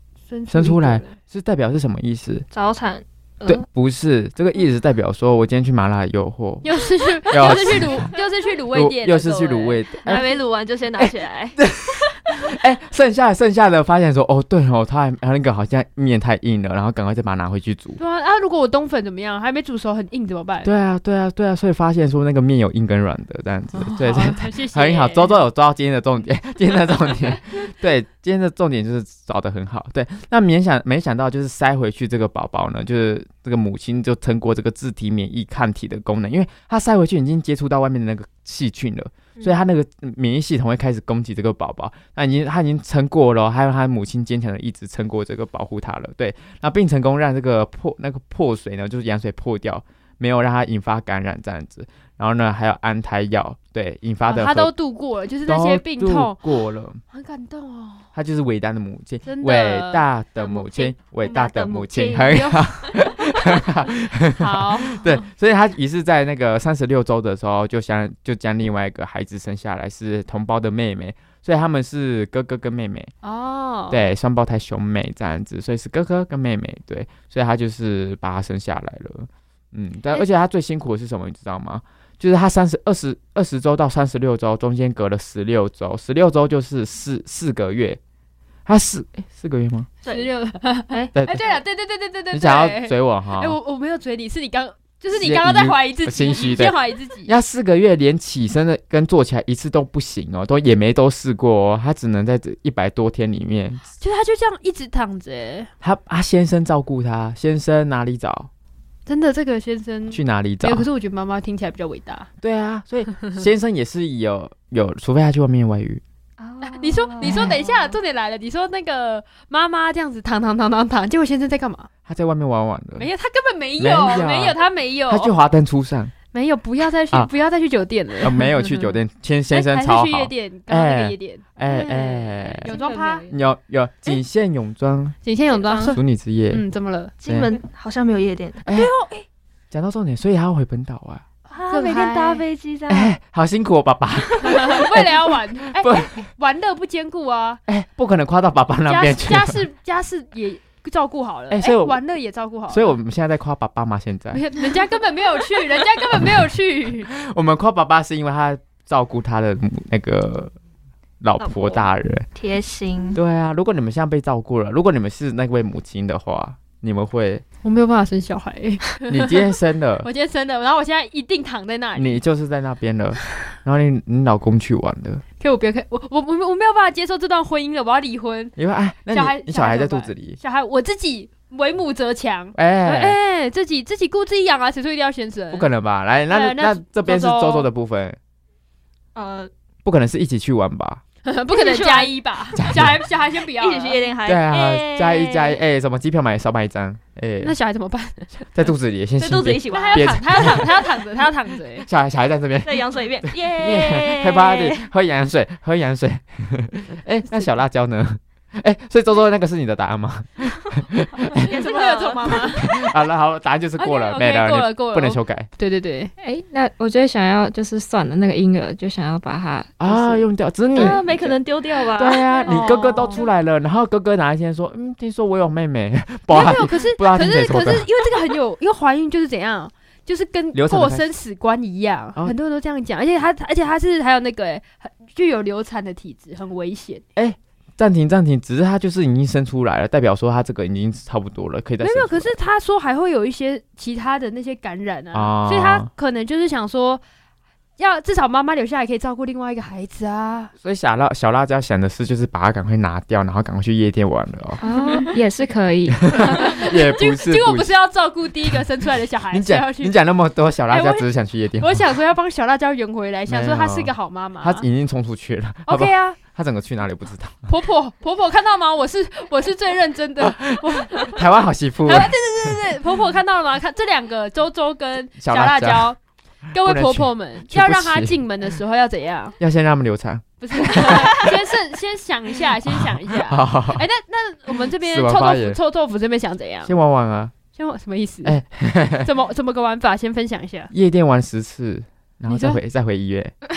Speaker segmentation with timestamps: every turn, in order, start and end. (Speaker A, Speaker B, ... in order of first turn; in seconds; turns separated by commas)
Speaker A: 0.3-1.2, Speaker B: 0.5-2.5, Speaker C: 2.5-3.6, Speaker B: 3.5-6.7, Speaker A: 6.6-10.3, Speaker C: 7.2-8.1, Speaker B: 7.3-8.1, Speaker B: 8.7-10.3, Speaker C: 10.1-11.6, Speaker B: 11.0-18.0, Speaker A: 18.0-20.7, Speaker B: 20.6-54.7, Speaker A: 23.8-25.3, Speaker A: 54.3-56.4, Speaker B: 55.5-57.0, Speaker A: 57.1-58.1, Speaker B: 58.1-73.1, Speaker A: 59.2-60.7, Speaker C: 60.9-63.2, Speaker A: 62.3-62.6, Speaker A: 64.4-65.2, Speaker A: 73.2-74.0, Speaker B: 73.9-88.0, Speaker B: 88.7-89.9, Speaker C: 90.0-90.3, Speaker A: 90.0-97.3, Speaker C: 90.9-91.5, Speaker B: 91.1-91.4, Speaker B: 92.3-93.6, Speaker B: 95.1-103.8, Speaker A: 104.0-105.7, Speaker B: 105.8-108.5, Speaker A: 109.1-112.3, Speaker B: 110.1-110.9, Speaker B: 112.4-116.0, Speaker D: 116.4-117.9, Speaker A: 116.6-121.9, Speaker B: 122.1-123.1, Speaker A: 123.0-125.3, Speaker B: 123.8-126.2, Speaker A: 126.3-129.0, Speaker B: 128.2-132.7, Speaker A: 129.5-133.3, Speaker D: 132.7-133.2, Speaker C: 132.7-133.2, Speaker B: 133.3-135.2, Speaker A: 135.2-137.1, Speaker C: 135.5-136.0, Speaker B: 135.9-136.6, Speaker C: 137.2-139.1, Speaker B: 137.2-137.6, Speaker B: 138.6-138.9, Speaker B: 139.7-141.2, Speaker C: 141.5-143.2, Speaker A: 141.7-142.4, Speaker B: 142.9-146.1, Speaker A: 144.4-147.6, Speaker C: 144.5-144.8, Speaker B: 147.7-149.6, Speaker A: 148.9-153.0, Speaker B: 151.5-152.0, Speaker B: 152.7-154.4, Speaker A: 154.3-157.1, Speaker B: 157.1-160.5, Speaker B: 161.2-162.3, Speaker C: 161.4-163.2, Speaker B: 163.2-167.4, Speaker A: 167.6-169.4, Speaker B: 169.1-170.1, Speaker A: 170.0-172.2, Speaker B: 171.9-175.2, Speaker A: 175.4-178.6, Speaker B: 178.6-180.4, Speaker A: 179.1-185.7, Speaker B: 182.6-183.2, Speaker B: 185.5-188.2, Speaker A: 186.3-187.7, Speaker C: 189.2-189.5, Speaker B: 189.8-191.0, Speaker A: 191.2-194.0, Speaker C: 191.5-192.2, Speaker B: 192.6-192.9, Speaker C: 193.4-195.6, Speaker B: 194.3-197.6, Speaker A: 197.4-198.5, Speaker B: 198.5-200.8, Speaker C: 199.2-200.7, Speaker A: 199.7-201.9, Speaker B: 201.8-211.5, Speaker C: 202.7-204.8, Speaker A: 211.4-212.7, Speaker C: 211.5-212.7, Speaker B: 212.6-215.5, Speaker A: 213.8-216.1, Speaker D: 216.2-219.8, Speaker B: 219.8-221.4, Speaker C: 220.8-223.2, Speaker B: 221.9-227.9, Speaker A: 222.4-223.3, Speaker A: 226.3-237.1, Speaker B: 230.5-231.1, Speaker B: 237.2-242.3, Speaker A: 241.8-247.0, Speaker B: 245.1-245.9, Speaker A: 247.8-250.5, Speaker B: 250.6-254.6, Speaker D: 254.6-256.1, Speaker B: 256.0-257.7, Speaker A: 256.3-259.9, Speaker B: 259.3-261.8, Speaker A: 260.7-261.1, Speaker A: 261.6-264.6, Speaker B: 263.3-267.5, Speaker A: 265.7-266.2, Speaker A: 267.5-271.2, Speaker B: 270.2-272.6, Speaker A: 271.9-276.0, Speaker B: 275.2-275.9, Speaker A: 276.5-279.4, Speaker B: 276.6-278.2, Speaker B: 279.4-281.4, Speaker A: 280.4-286.7, Speaker B: 282.6-283.9, Speaker B: 284.8-285.6, Speaker B: 286.6-287.4, Speaker A: 287.5-288.4, Speaker B: 288.2-289.1, Speaker A: 289.0-290.7, Speaker B: 290.7-293.4, Speaker A: 292.3-292.6